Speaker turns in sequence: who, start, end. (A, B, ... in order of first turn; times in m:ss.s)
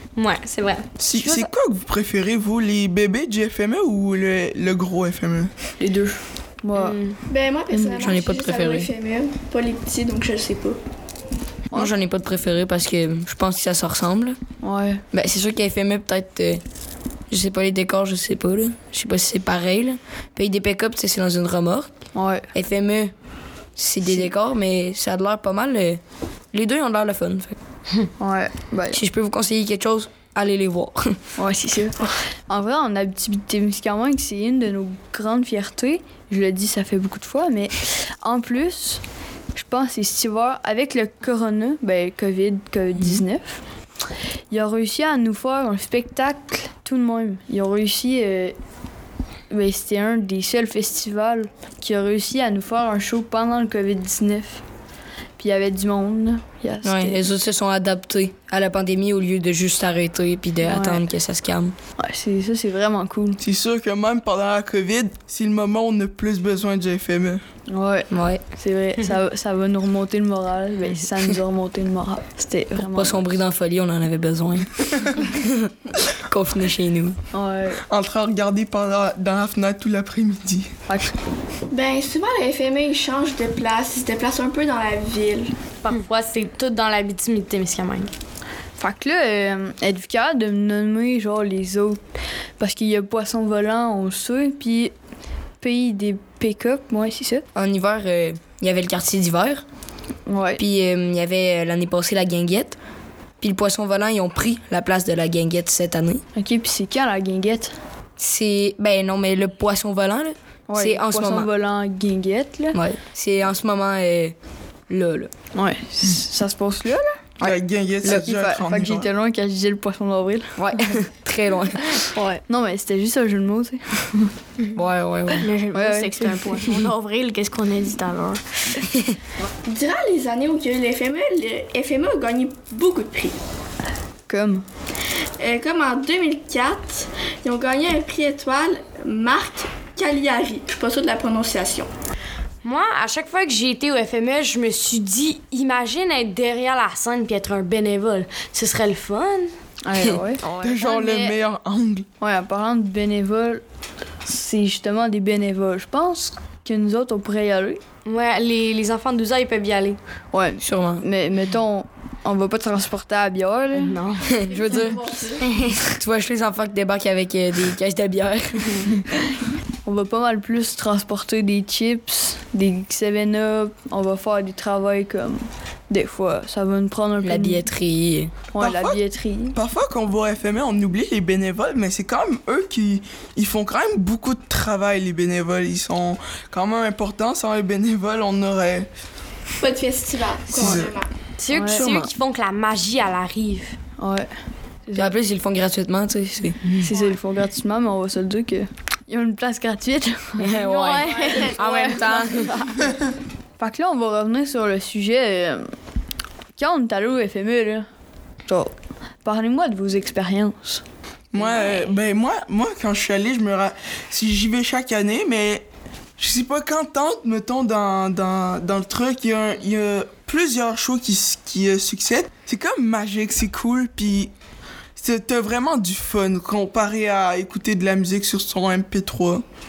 0:00.2-0:01.5 A
0:01.0-0:05.5 B
0:05.8-0:07.0 C
0:06.8-0:07.2 A
0:07.3-0:10.8 D
0:07.7-0:08.0 C
0:08.0-0:08.9 E
0:11.7-0:14.4 E
0:14.6-0:15.0 C
0:15.1-0:16.6 E
0:17.3-0:21.9 E
0:22.1-0:22.5 C
0:22.5-0:23.1 E
0:23.8-0:26.0 E
0:24.0-0:24.3 C
0:26.5-0:27.6 E
0:28.2-0:29.0 C
0:28.9-0:31.2 E
0:31.4-0:39.0 C
0:39.5-0:43.6 C
0:44.5-0:48.6 C
0:49.5-0:54.6 C
0:55.4-0:57.2 C
0:56.8-1:01.7 E
1:00.6-1:01.0 C
1:02.0-1:03.4 C
1:03.4-1:07.4 B
1:07.7-1:13.3 C
1:08.1-1:08.4 E
1:12.8-1:17.2 E
1:17.3-1:17.8 C
1:17.9-1:20.7 B
1:20.9-1:21.1 C
1:21.7-1:25.5 D
1:25.8-1:28.1 A
1:28.8-1:32.0 C
1:32.6-1:34.9 C
1:35.6-1:37.4 C
1:37.5-1:39.6 E
1:40.3-1:40.6 C
1:40.6-1:42.8 E
1:43.4-1:46.2 E
1:46.3-1:47.7 C
1:48.2-1:51.5 E
1:50.7-1:52.8 C
1:52.7-1:54.3 E
1:54.9-1:55.3 E
1:55.5-1:57.3 C
1:57.4-1:59.1 B
1:58.0-2:00.9 C
2:00.6-2:02.1 E
2:02.1-2:02.4 A
2:02.5-2:04.3 C
2:04.7-2:05.5 E
2:05.4-2:08.4 F
2:05.7-2:06.7 C
2:09.6-2:13.4 D
2:14.3-2:14.6 C
2:15.4-2:21.9 D
2:22.6-2:29.5 A
2:29.8-2:30.4 C
2:30.4-2:31.3 A
2:30.6-2:32.0 B
2:32.2-2:33.6 C
2:34.2-2:37.8 C
2:38.0-2:40.0 A
2:40.3-2:44.0 C
2:40.6-2:41.0 E
2:43.7-2:44.3 A
2:44.4-2:45.5 D
2:44.5-2:45.0 C
2:45.8-2:49.0 E
2:49.8-2:57.7 C
2:57.2-2:58.3 E
2:58.5-2:59.6 C
2:58.6-2:59.0 B
2:59.5-3:08.9 B
3:09.6-3:11.1 D
3:10.6-3:10.9 B
3:10.6-3:10.9 C
3:11.4-3:13.8 A
3:11.5-3:11.8 C
3:11.6-3:12.1 E
3:14.0-3:14.3 C
3:14.9-3:15.1 C
3:14.9-3:16.6 E
3:16.6-3:16.9 A
3:16.8-3:20.6 C
3:20.4-3:22.5 E
3:20.7-3:22.1 F
3:23.6-3:25.6 C
3:26.6-3:27.8 C
3:28.5-3:28.7 C
3:29.2-3:30.8 C
3:31.3-3:35.6 B
3:36.2-3:44.3 B
3:45.0-3:49.4 B